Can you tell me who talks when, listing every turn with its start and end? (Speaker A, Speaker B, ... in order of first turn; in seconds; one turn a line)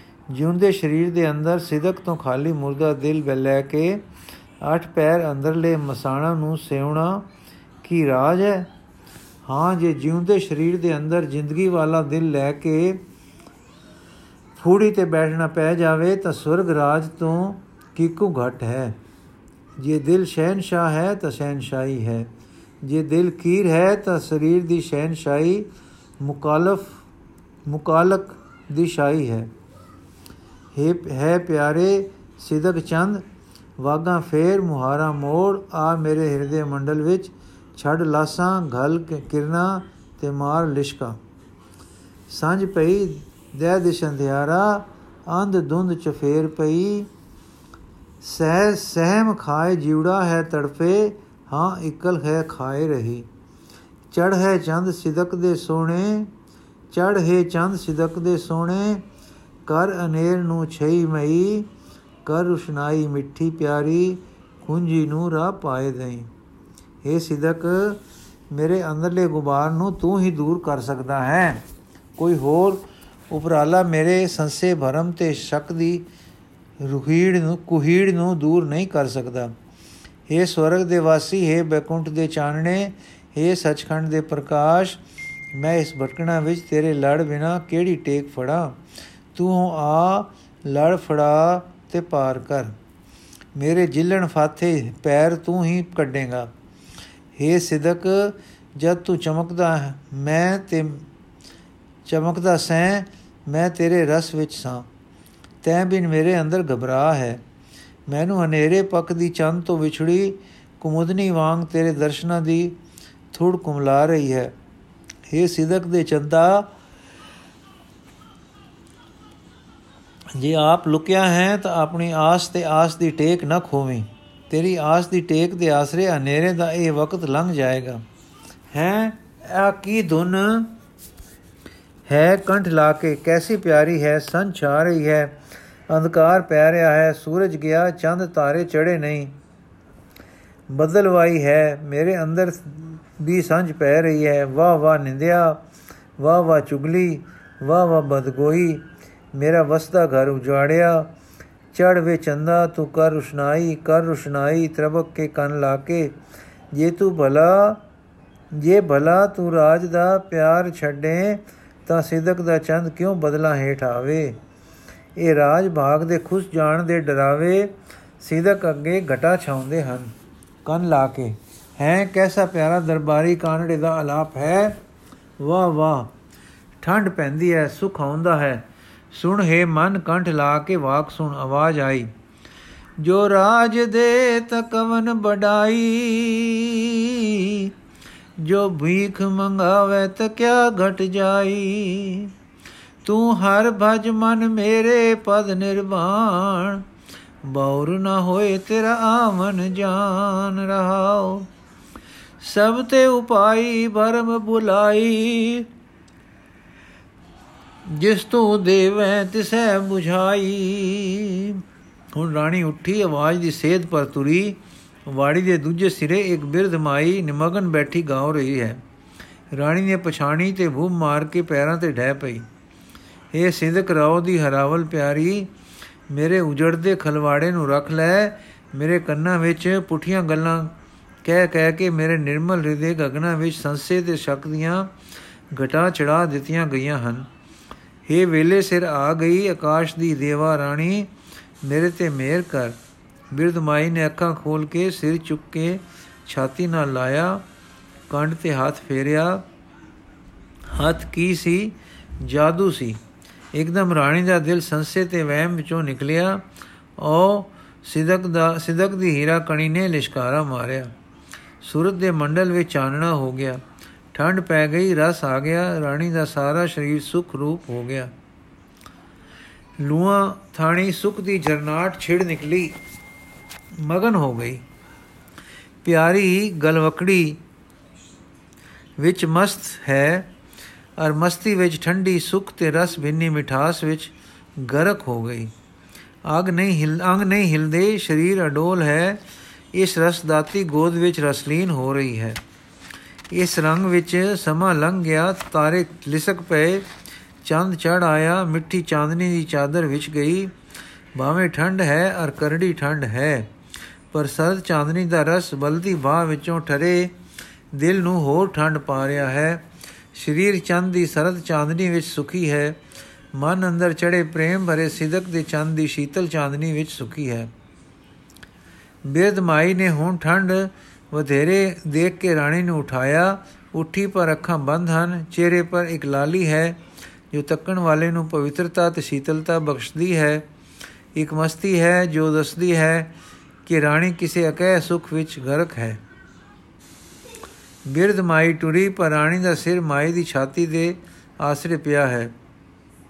Speaker A: 0.3-4.0
Speaker A: 4.6-7.3
Speaker A: 7.8-8.7
Speaker A: 9.5-13.0
Speaker A: 14.6-19.0
Speaker A: 19.8-22.3
Speaker A: 22.8-25.7
Speaker A: 26.2-27.0
Speaker A: 27.7-29.5
Speaker A: 30.8-33.2
Speaker A: 33.8-41.2
Speaker A: 42.3-47.1
Speaker A: 48.2-53.3
Speaker A: 54.1-56.3
Speaker A: 56.9-59.0
Speaker A: 59.7-61.7
Speaker A: 62.2-66.3
Speaker A: 67.0-71.6
Speaker A: 72.2-76.1
Speaker A: 76.8-79.5
Speaker A: 80.3-85.0
Speaker A: 85.5-88.8
Speaker A: 89.3-92.8
Speaker A: 93.5-96.5
Speaker A: 97.4-101.0
Speaker A: 102.1-104.9
Speaker A: 105.6-107.4
Speaker A: 108.1-112.8
Speaker A: 113.3-114.5
Speaker A: 115.3-116.7
Speaker A: 120.4-128.0
Speaker A: 128.7-130.8
Speaker A: 132.1-135.4
Speaker A: 135.9-139.3
Speaker A: 140.7-145.6
Speaker A: 146.2-148.8
Speaker A: 149.3-151.1
Speaker A: 151.7-156.2
Speaker A: 156.7-157.8
Speaker A: 158.5-164.4
Speaker A: 165.2-170.1
Speaker A: 170.7-174.8
Speaker A: 175.4-176.1
Speaker A: 176.8-182.1
Speaker A: 183.0-187.7
Speaker A: 188.4-192.3
Speaker A: 193.1-196.8
Speaker A: 197.4-201.5
Speaker A: 202.4-205.7
Speaker A: 207.8-211.6
Speaker A: 212.1-218.8
Speaker A: 219.5-222.5
Speaker A: 223.3-225.5
Speaker A: 226.1-234.9
Speaker A: 235.5-237.3
Speaker A: 238.1-241.1
Speaker A: 241.6-242.8
Speaker A: 243.3-247.4
Speaker A: 248.1-249.4
Speaker A: 250.7-253.0
Speaker A: 253.5-256.4
Speaker A: 257.0-260.9
Speaker A: 261.6-263.6
Speaker A: 264.1-268.1
Speaker A: 269.8-272.8
Speaker A: 273.8-274.6
Speaker A: 275.8-277.4
Speaker A: 279.0-280.3
Speaker A: 281.0-285.5
Speaker A: 286.3-289.2
Speaker A: 289.7-292.4
Speaker A: 293.3-296.9
Speaker A: 297.4-300.5
Speaker A: 301.1-303.5
Speaker A: 304.1-307.1
Speaker A: 307.7-312.8
Speaker A: 313.3-317.5
Speaker A: 319.1-326.8
Speaker A: 327.3-330.4
Speaker A: 331.1-333.1
Speaker A: 333.7-336.0
Speaker A: 337.9-342.3